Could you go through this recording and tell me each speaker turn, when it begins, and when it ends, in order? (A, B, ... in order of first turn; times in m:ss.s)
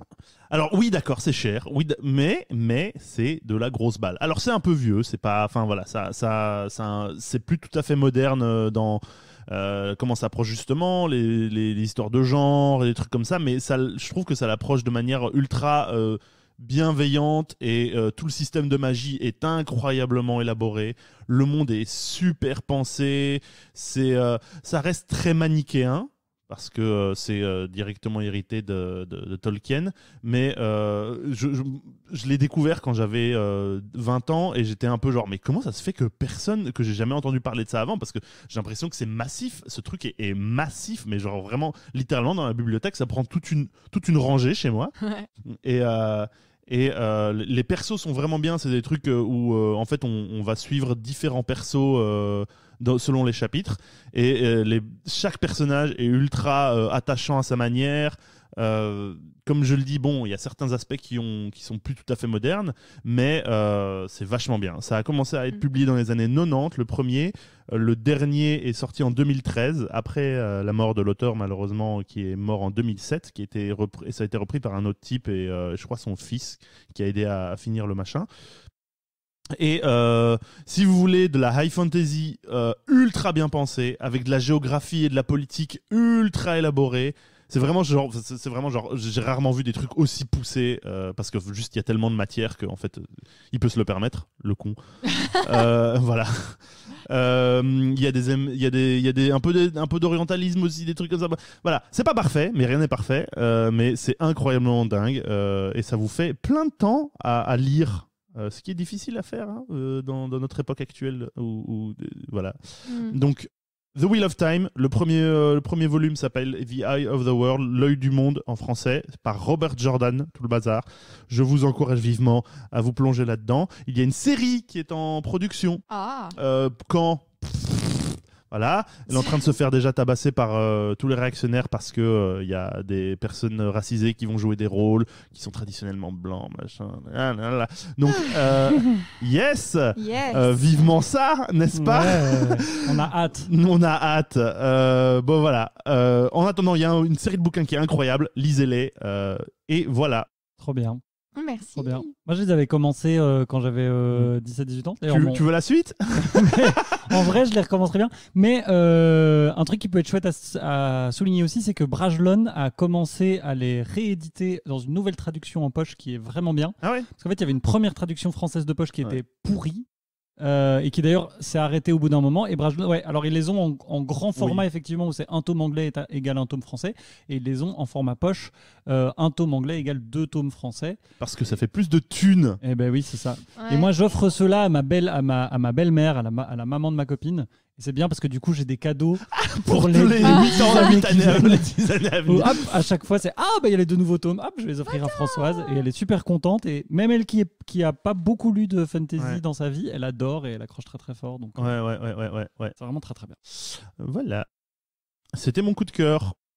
0:00.5-0:44.9 A
0:45.0-0:45.3 B
0:45.4-1:18.3 A
1:19.5-2:05.8 A
1:52.9-1:53.2 B
2:05.9-2:06.4 B
2:06.4-2:30.3 A
2:09.1-2:09.5 B
2:18.1-2:19.1 B
2:19.9-2:21.0 B
2:21.7-2:23.5 C
2:30.6-2:31.0 C
2:31.4-2:32.1 B
2:31.8-2:35.4 C
2:35.1-2:37.3 A
2:36.1-2:49.8 C
2:46.8-2:47.1 A
2:50.4-3:01.0 C
2:54.4-2:54.6 A
3:01.2-3:02.6 A
3:02.6-3:21.7 C
3:03.6-3:03.9 B
3:09.4-3:12.7 A
3:10.2-3:11.0 B
3:14.9-3:15.8 B
3:21.6-3:22.7 A
3:22.8-3:23.4 C
3:23.6-3:24.5 A
3:25.3-3:26.4 A